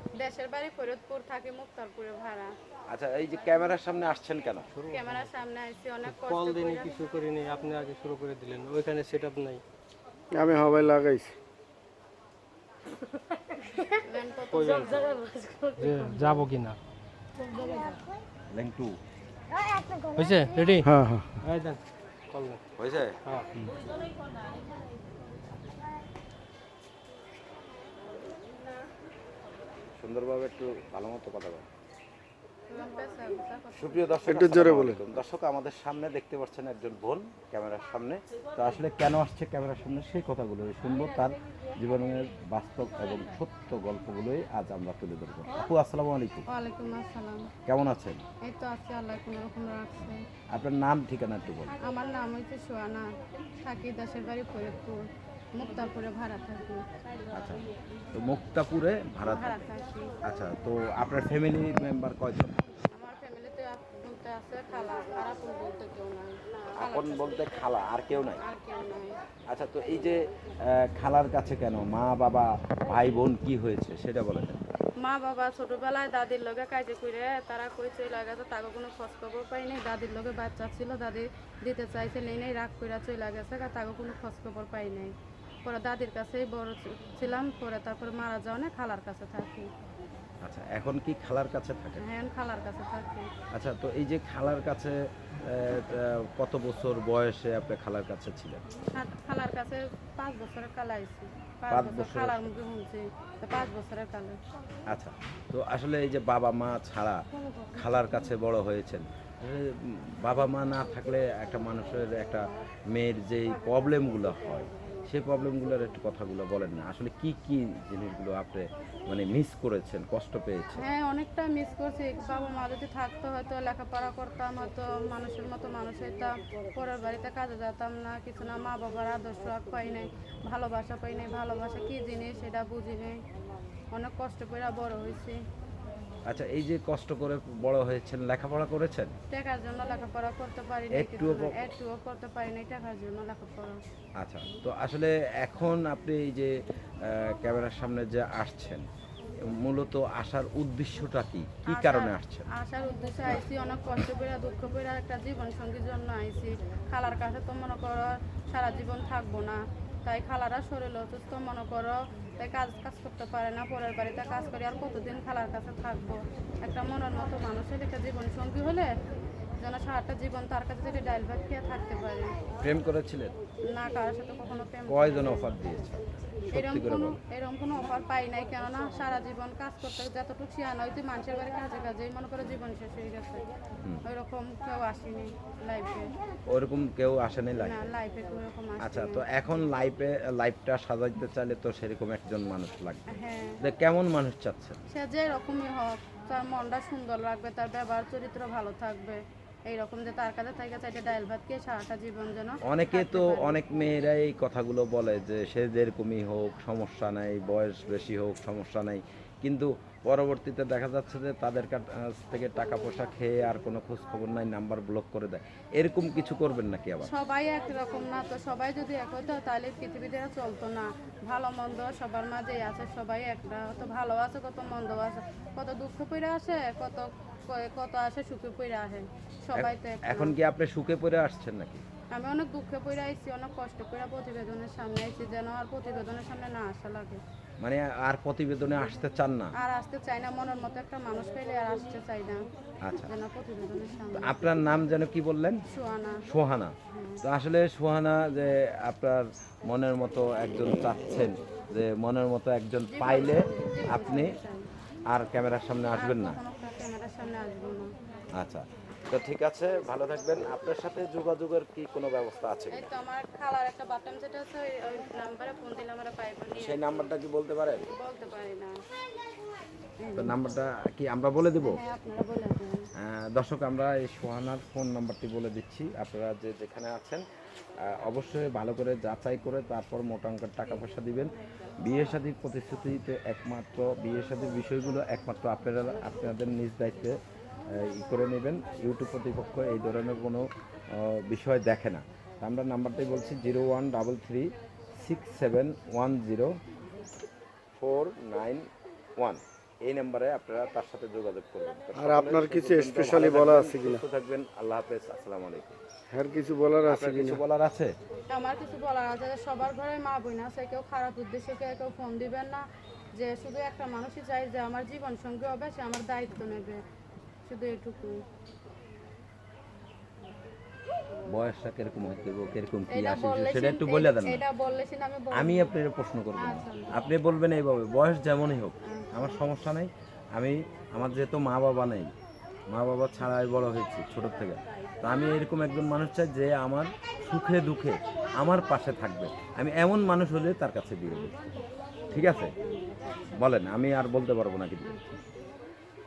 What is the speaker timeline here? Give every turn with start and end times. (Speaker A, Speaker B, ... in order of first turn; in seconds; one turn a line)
Speaker A: 0.2-2.5
Speaker B: 2.9-4.7
Speaker C: 4.7-5.3
Speaker A: 4.9-7.0
Speaker C: 6.0-9.6
Speaker D: 10.3-11.3
Speaker A: 14.0-15.7
Speaker C: 14.5-15.1
Speaker C: 15.8-16.8
Speaker B: 18.5-19.0
Speaker C: 20.1-20.9
Speaker D: 20.8-21.4
Speaker C: 21.4-22.6
Speaker B: 22.8-23.2
Speaker C: 23.2-23.5
Speaker B: 30.0-31.6
Speaker A: 32.7-34.6
Speaker B: 33.7-46.5
Speaker D: 34.3-35.0
Speaker A: 46.5-47.5
Speaker B: 47.6-48.2
Speaker A: 48.4-50.2
Speaker B: 50.5-51.7
Speaker A: 51.8-53.1
Speaker A: 53.6-55.0
Speaker A: 55.6-56.9
Speaker B: 57.3-59.6
Speaker A: 59.2-60.2
Speaker B: 60.2-62.5
Speaker A: 62.9-67.3
Speaker B: 66.8-68.4
Speaker A: 68.4-69.2
Speaker B: 69.5-74.6
Speaker A: 75.0-85.1
Speaker A: 85.6-89.7
Speaker B: 90.4-92.0
Speaker A: 92.0-93.3
Speaker B: 93.5-98.6
Speaker A: 99.0-104.4
Speaker B: 101.7-102.5
Speaker B: 104.9-107.2
Speaker B: 107.8-120.8
Speaker A: 120.8-133.2
Speaker A: 133.9-135.4
Speaker B: 136.3-139.1
Speaker A: 139.3-143.8
Speaker B: 140.9-141.7
Speaker B: 144.2-148.8
Speaker B: 149.4-152.5
Speaker A: 151.6-168.9
Speaker A: 169.6-172.4
Speaker B: 172.6-173.3
Speaker A: 173.7-175.5
Speaker B: 174.9-177.2
Speaker A: 176.5-183.4
Speaker A: 184.1-186.1
Speaker B: 186.5-187.9
Speaker A: 187.6-189.2
Speaker B: 188.8-194.8
Speaker A: 193.1-193.6
Speaker A: 194.9-203.6
Speaker B: 202.6-217.1
Speaker A: 217.0-230.3
Speaker B: 229.6-231.8
Speaker A: 232.1-237.2
Speaker B: 237.6-239.5
Speaker A: 239.6-242.4
Speaker B: 242.8-243.1
Speaker A: 243.0-244.4
Speaker B: 244.1-245.6
Speaker A: 245.7-246.2
Speaker B: 246.3-254.3
Speaker A: 246.9-247.2
Speaker A: 252.9-254.7
Speaker B: 255.1-256.4
Speaker A: 255.9-257.9
Speaker B: 258.4-262.9
Speaker A: 262.7-266.8
Speaker B: 266.5-267.9
Speaker A: 267.9-268.7
Speaker A: 270.0-270.4
Speaker B: 270.1-271.8
Speaker A: 271.6-272.8
Speaker B: 273.0-277.2
Speaker B: 277.9-281.3
Speaker B: 281.8-287.1
Speaker B: 287.7-296.5
Speaker B: 297.8-298.7
Speaker B: 299.2-305.8
Speaker D: 301.9-304.0
Speaker D: 306.1-307.4
Speaker B: 306.8-307.9
Speaker A: 308.3-312.6
Speaker A: 313.2-316.8
Speaker A: 317.4-318.2
Speaker B: 321.3-324.4
Speaker A: 322.9-325.7
Speaker B: 325.3-332.1
Speaker A: 326.4-326.9
Speaker A: 328.9-329.4
Speaker B: 332.7-341.3
Speaker A: 341.1-341.4
Speaker B: 342.1-342.5
Speaker A: 342.6-343.0
Speaker B: 343.3-345.0
Speaker A: 344.9-345.2